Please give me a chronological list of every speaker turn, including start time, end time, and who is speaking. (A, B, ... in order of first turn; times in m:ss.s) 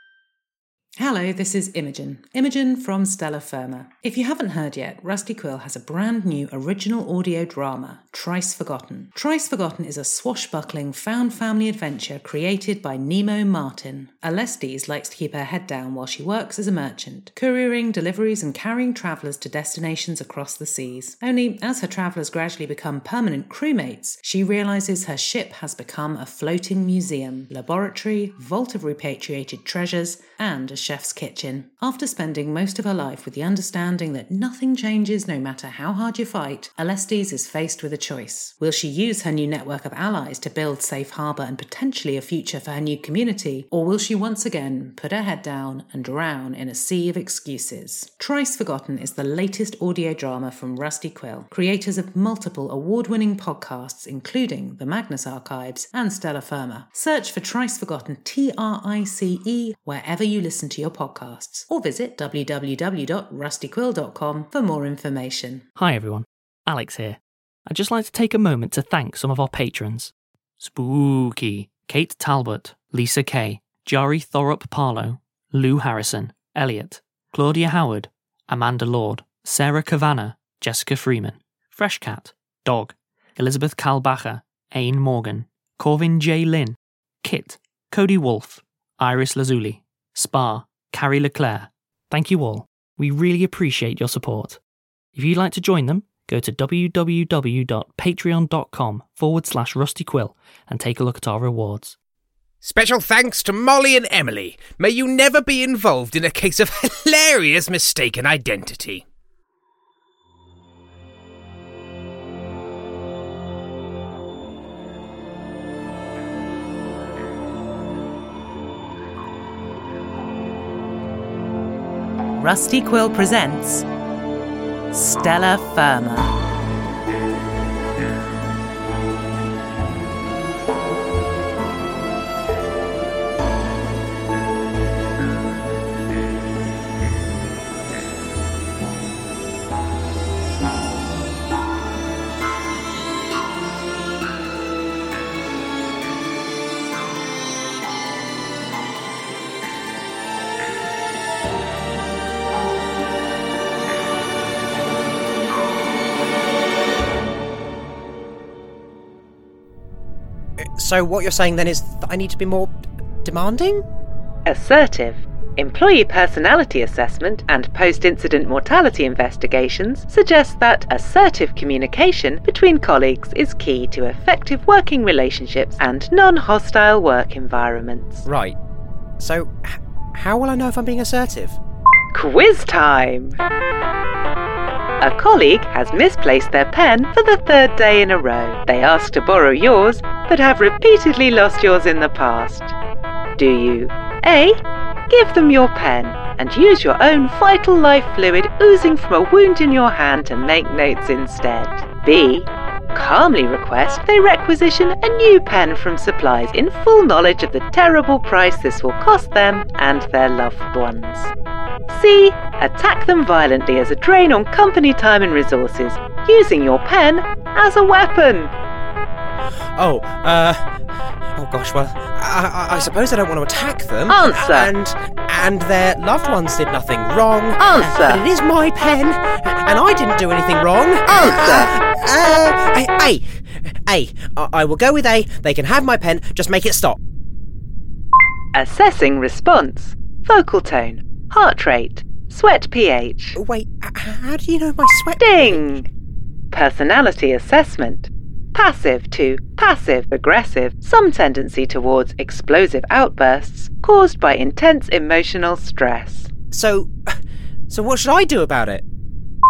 0:01.0-1:05.6 A
1:05.8-1:34.6 B
1:35.1-1:42.0 B
1:42.6-1:49.0 C
2:02.4-2:03.8 A
2:04.9-2:06.3 A
2:40.6-2:42.7 D
2:43.2-2:43.8 D
2:44.4-2:58.2 E
2:58.2-2:58.6 D
2:59.2-3:01.6 D
3:02.1-3:03.4 E
3:05.0-3:12.7 E
3:13.4-3:31.3 E
3:31.9-3:38.5 E
3:39.8-3:40.6 D
3:41.3-3:57.0 D
3:44.1-3:44.7 E
3:47.6-3:48.2 E
3:51.1-3:51.7 E
3:58.5-4:03.4 E
4:03.3-4:05.7 D
4:05.2-4:05.8 E
4:06.5-4:16.3 E
4:16.5-4:17.2 D
4:17.7-4:18.8 D